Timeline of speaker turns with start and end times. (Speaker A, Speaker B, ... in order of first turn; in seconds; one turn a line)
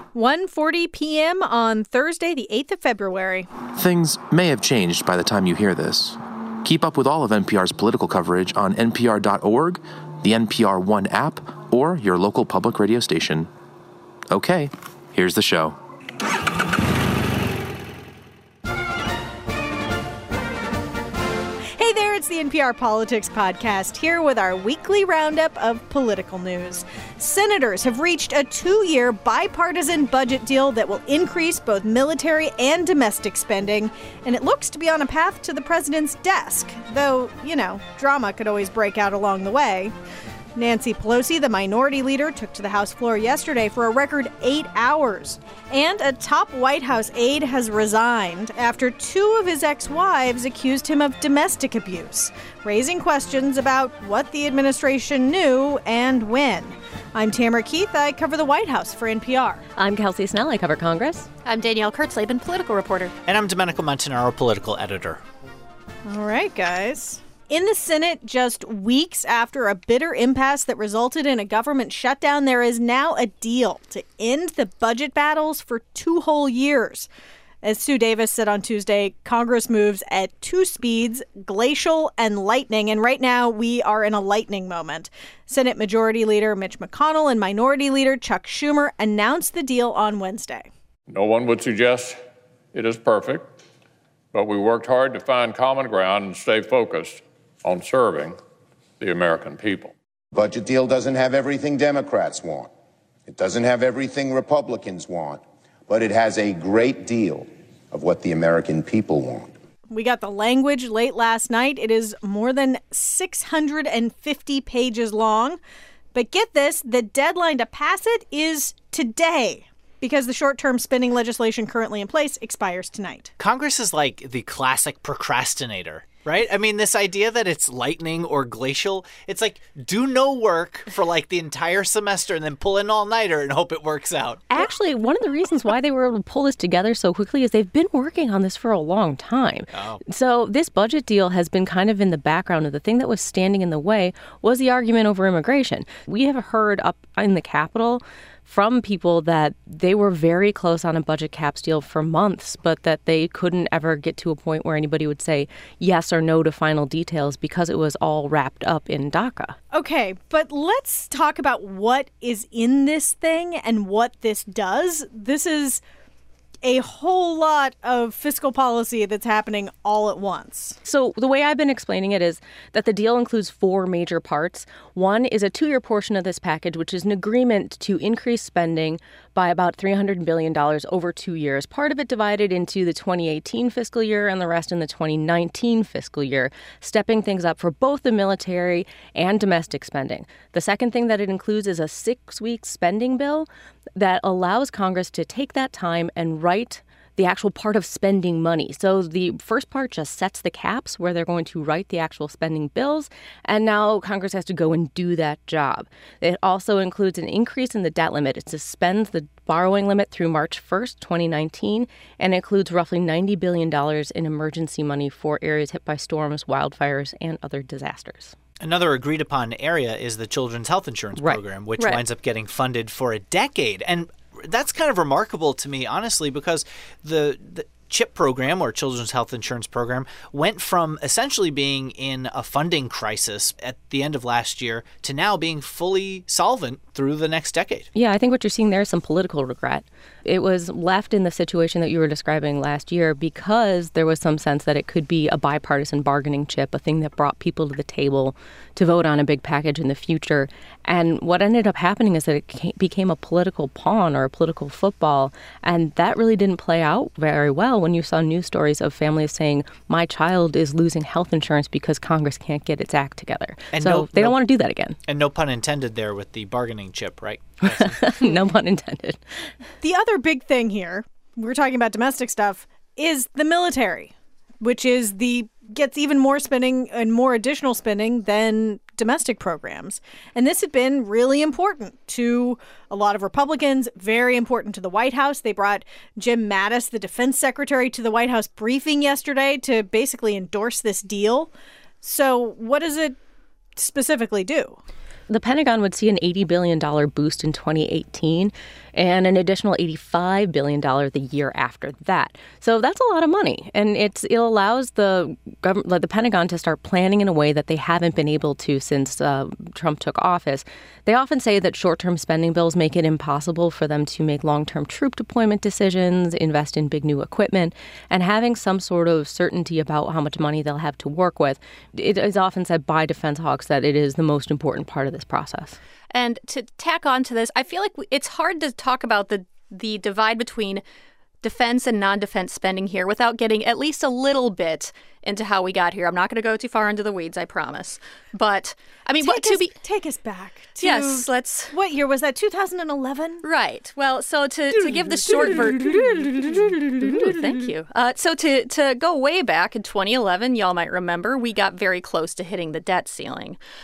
Speaker A: 0.1-3.5
Speaker B: 3.8-13.5
Speaker B: 14.3-15.8
Speaker A: 21.8-39.9
Speaker A: 40.6-59.6
Speaker C: 59.8-61.3
Speaker D: 61.5-63.1
Speaker E: 63.3-65.2
Speaker A: 66.1-77.1
Speaker A: 77.6-90.7
Speaker F: 91.1-92.2
Speaker F: 92.7-93.5
Speaker F: 94.3-98.4
Speaker F: 99.0-99.9
Speaker G: 100.3-102.7
Speaker G: 103.3-109.5
Speaker A: 109.9-115.6
Speaker A: 116.1-123.3
Speaker E: 123.4-134.5
Speaker C: 134.5-159.6
Speaker E: 139.7-140.0
Speaker A: 159.7-165.8
Speaker A: 166.6-170.8
Speaker C: 170.8-218.3
Speaker E: 218.6-237.9
Speaker C: 237.9-265.0
Speaker E: 263.7-264.4
Speaker E: 265.1-268.0
Speaker C: 267.6-269.2
Speaker A: 269.8-291.5
Speaker A: 292.0-293.2
Speaker A: 293.8-294.8
Speaker C: 295.3-325.8
Speaker D: 326.1-330.8
Speaker D: 331.4-339.7
Speaker A: 339.2-343.4
Speaker D: 340.8-341.8
Speaker D: 343.4-353.6
Speaker A: 345.1-347.4